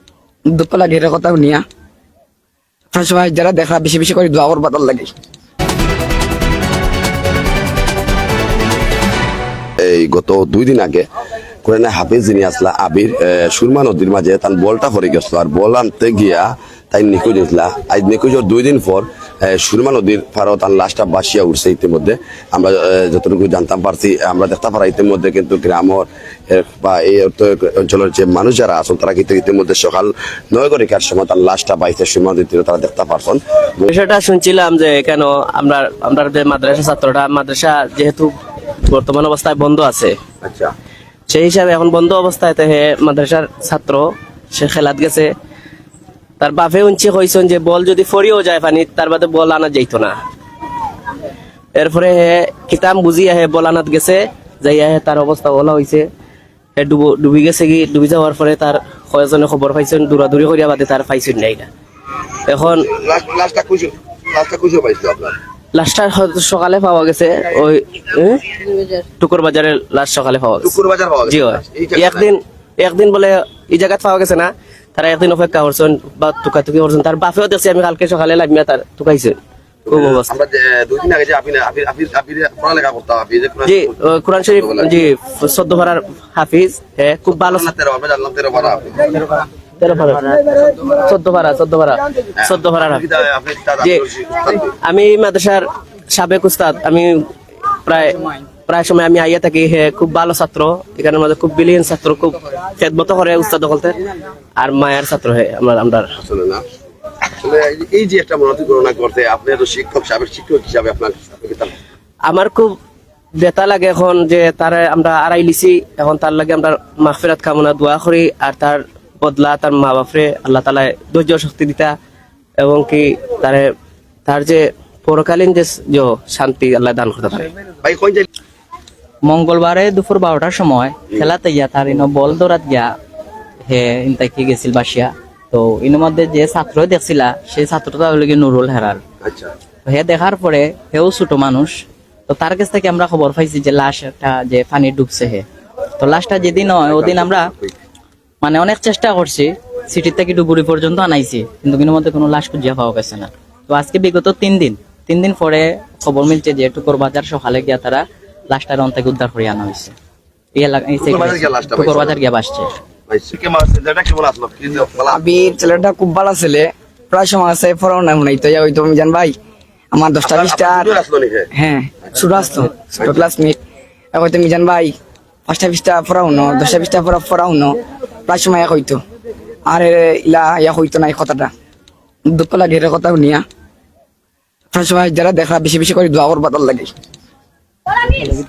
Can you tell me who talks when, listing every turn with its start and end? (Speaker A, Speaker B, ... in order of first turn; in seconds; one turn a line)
Speaker A: 0.5-1.6
Speaker A: 2.9-5.1
Speaker B: 9.8-11.0
Speaker B: 11.6-33.9
Speaker C: 33.9-38.4
Speaker C: 38.9-40.2
Speaker B: 40.4-40.7
Speaker C: 41.3-45.3
Speaker C: 46.4-50.2
Speaker C: 51.7-56.1
Speaker C: 56.8-61.7
Speaker C: 62.5-62.8
Speaker B: 62.7-65.4
Speaker C: 65.7-70.7
Speaker B: 70.6-72.3
Speaker C: 71.3-79.4
Speaker B: 79.9-85.1
Speaker C: 79.9-80.3
Speaker C: 83.7-87.7
Speaker B: 87.3-89.2
Speaker C: 89.8-93.0
Speaker B: 92.4-94.7
Speaker C: 94.8-97.3
Speaker C: 97.8-104.0
Speaker C: 104.6-106.1
Speaker B: 106.2-106.6
Speaker B: 107.4-111.7
Speaker C: 112.2-112.8
Speaker C: 113.3-121.9
Speaker C: 122.6-123.7
Speaker C: 124.3-127.5
Speaker B: 127.8-128.2
Speaker D: 129.2-132.9
Speaker D: 133.7-139.0
Speaker B: 139.2-139.5
Speaker D: 139.8-141.7
Speaker D: 142.3-145.4
Speaker D: 146.0-147.4
Speaker B: 146.8-147.7
Speaker D: 148.4-159.9
Speaker D: 160.6-162.7
Speaker B: 161.0-162.2
Speaker B: 163.1-165.3
Speaker A: 165.1-169.3
Speaker A: 169.9-170.9
Speaker B: 170.2-171.5
Speaker A: 171.5-173.6
Speaker B: 173.0-173.2
Speaker A: 174.1-174.9
Speaker A: 175.5-179.0
Speaker A: 179.7-181.5
Speaker A: 182.3-183.4
Speaker A: 184.7-186.9